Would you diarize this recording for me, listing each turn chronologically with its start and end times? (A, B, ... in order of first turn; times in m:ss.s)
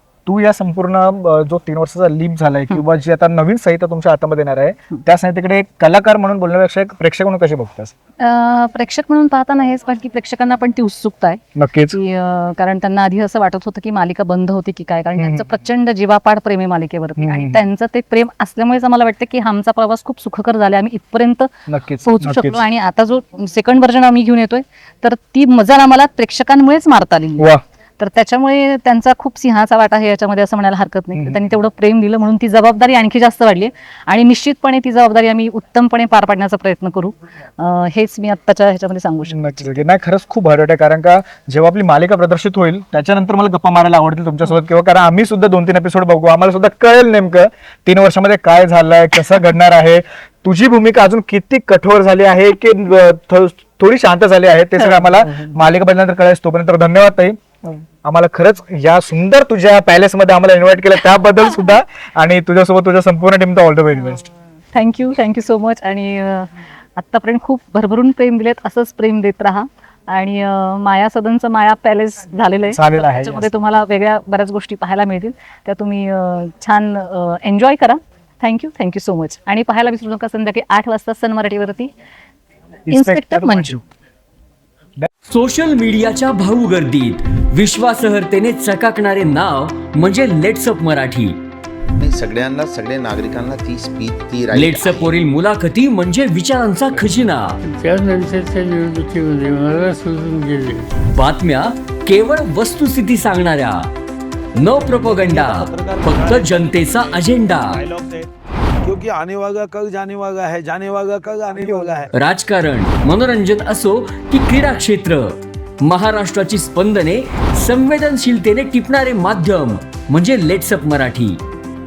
0:00.2-0:07.9 A
0:08.2-0:11.4 B
0:11.6-0:12.0 A
0:11.9-0:21.5 B
0:15.2-0:15.5 A
0:17.2-0:17.6 A
0:21.7-0:22.6 A
0:22.0-0:39.6 B
0:31.1-0:31.4 A
0:39.3-1:04.2 A
0:54.8-0:55.5 B
1:04.7-1:21.9 B
1:12.7-1:13.5 A
1:22.9-1:23.8 A
1:22.9-1:23.8 B
1:25.3-1:31.4 C
1:31.9-1:35.1 D
1:34.5-1:37.6 C
1:37.6-1:40.9 E
1:41.1-1:43.9 C
1:44.5-1:47.8 C
1:44.7-1:48.3 F
1:48.8-1:52.1 F
1:51.6-1:52.0 A
1:52.1-2:01.4 C